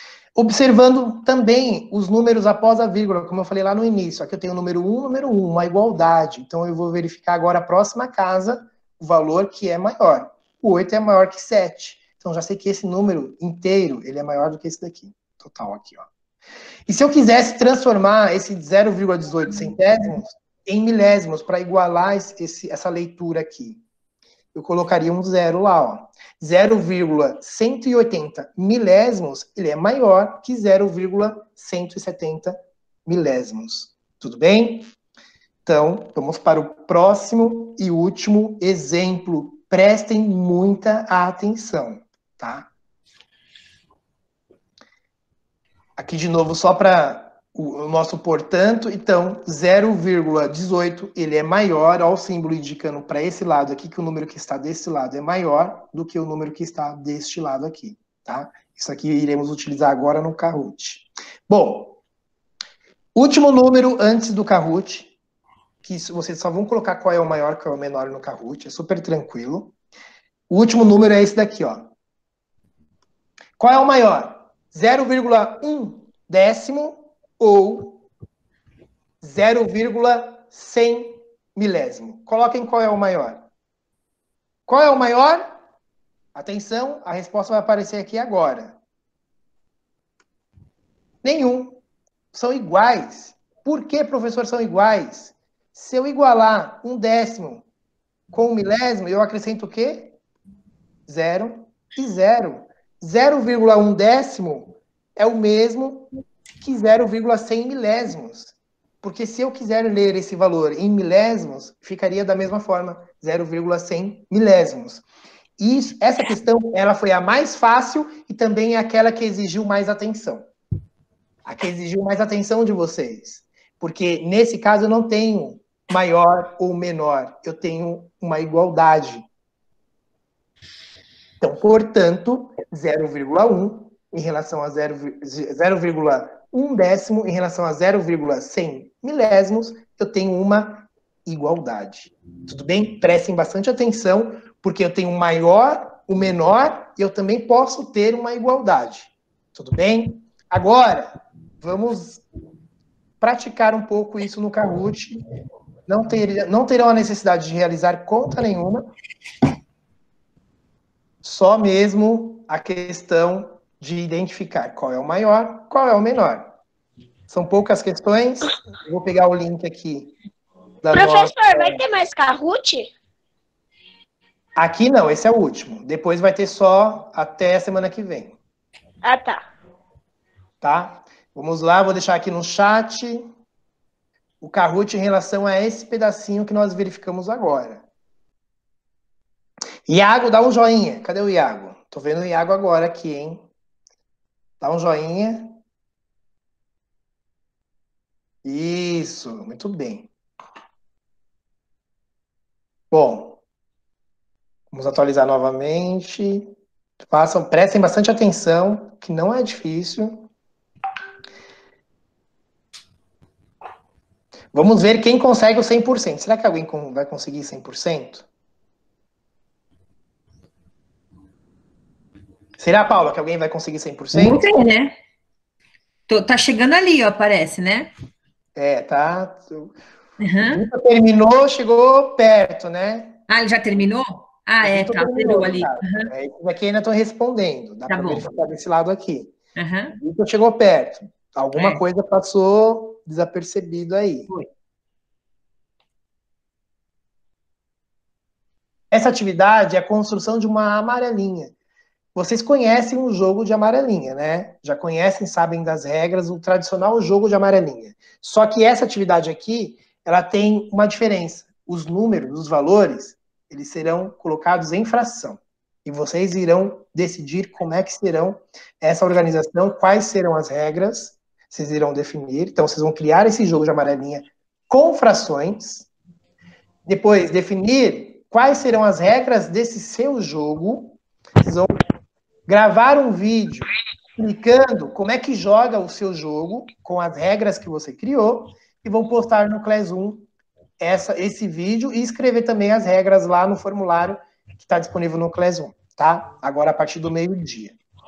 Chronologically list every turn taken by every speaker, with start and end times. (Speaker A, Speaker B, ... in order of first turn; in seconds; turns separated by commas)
Speaker A: 0.3-16.1, Speaker A: 16.9-23.8, Speaker A: 24.5-34.9, Speaker A: 35.6-42.7, Speaker A: 46.0-62.0, Speaker A: 63.1-65.1, Speaker A: 65.8-69.7, Speaker A: 70.5-71.9, Speaker A: 73.6-78.0, Speaker A: 79.2-83.4, Speaker A: 84.7-85.5, Speaker A: 86.3-88.8, Speaker A: 91.2-91.8, Speaker A: 92.3-97.7, Speaker A: 98.3-100.2, Speaker A: 101.1-106.1, Speaker A: 106.6-115.0, Speaker A: 115.6-120.5, Speaker A: 121.5-129.3, Speaker A: 131.4-152.2, Speaker A: 153.2-155.2, Speaker A: 155.9-158.9, Speaker A: 161.2-166.6, Speaker A: 167.3-170.1, Speaker A: 170.8-171.8, Speaker B: 170.9-172.9, Speaker A: 174.6-178.4, Speaker B: 179.0-179.4, Speaker A: 180.6-183.2, Speaker A: 184.4-187.8, Speaker A: 189.9-193.5, Speaker A: 194.6-195.6, Speaker A: 198.4-200.1, Speaker A: 202.9-203.4, Speaker A: 204.7-210.3, Speaker A: 214.5-218.3, Speaker A: 222.6-224.5, Speaker C: 224.1-224.9, Speaker C: 226.1-227.9, Speaker A: 228.6-229.8, Speaker C: 230.2-230.7, Speaker A: 230.4-233.2, Speaker C: 233.3-236.1, Speaker A: 234.6-239.4, Speaker C: 237.9-238.2, Speaker C: 239.6-240.0, Speaker A: 239.9-244.3, Speaker C: 241.6-241.8, Speaker A: 248.9-251.5, Speaker A: 252.2-275.9, Speaker A: 276.9-281.7, Speaker A: 282.5-290.3, Speaker A: 290.8-297.8